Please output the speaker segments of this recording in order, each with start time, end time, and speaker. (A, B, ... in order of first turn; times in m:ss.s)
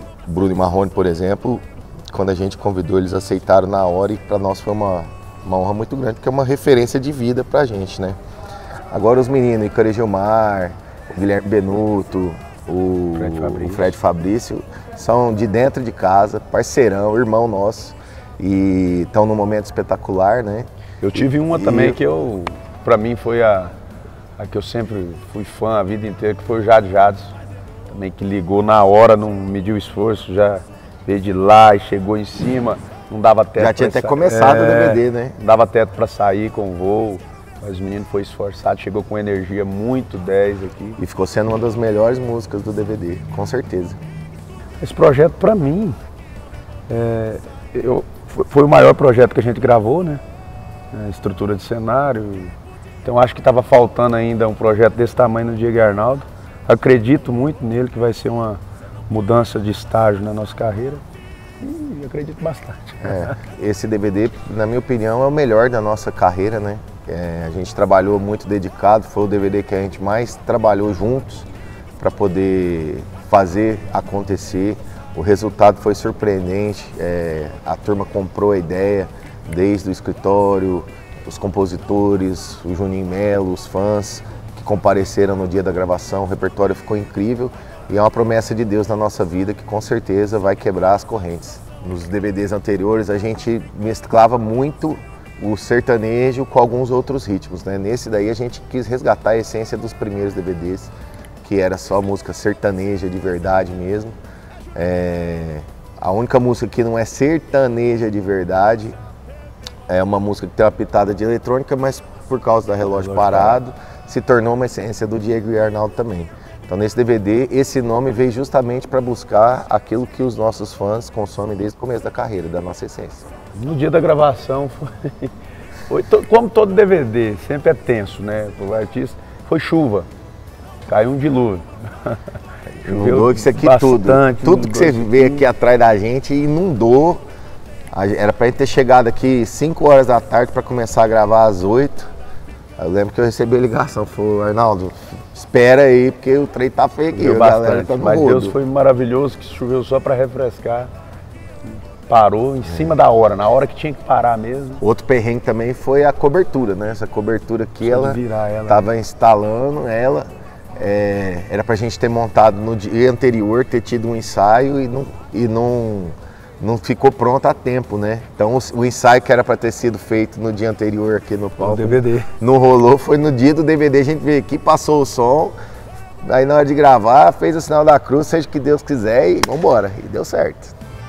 0:00.2-0:08.2 A
0:08.9-0:22.0 A
0:13.1-0:14.0 B
0:21.0-0:23.7 B
0:24.4-0:27.3 B
0:27.9-0:41.0 B
0:33.6-0:35.4 A
0:41.0-0:44.0 A
0:44.8-0:46.0 B
0:46.9-0:50.2 B
0:50.9-1:01.0 B
1:01.6-1:03.4 B
1:03.0-1:11.5 A
1:12.0-1:44.2 A
1:44.7-1:49.0 A
1:49.9-2:03.2 A
1:52.8-1:53.6 B
2:03.6-2:05.3 B
2:05.9-2:10.1 B
2:10.8-2:12.2 B
2:12.7-2:17.2 A
2:12.8-2:15.5 B
2:17.9-2:22.1 A
2:22.8-2:28.6 A
2:27.1-2:30.9 B
2:32.1-2:34.8 B
2:34.8-2:55.6 A
2:37.8-2:38.9 B
2:51.6-2:52.3 B
2:56.2-3:00.7 A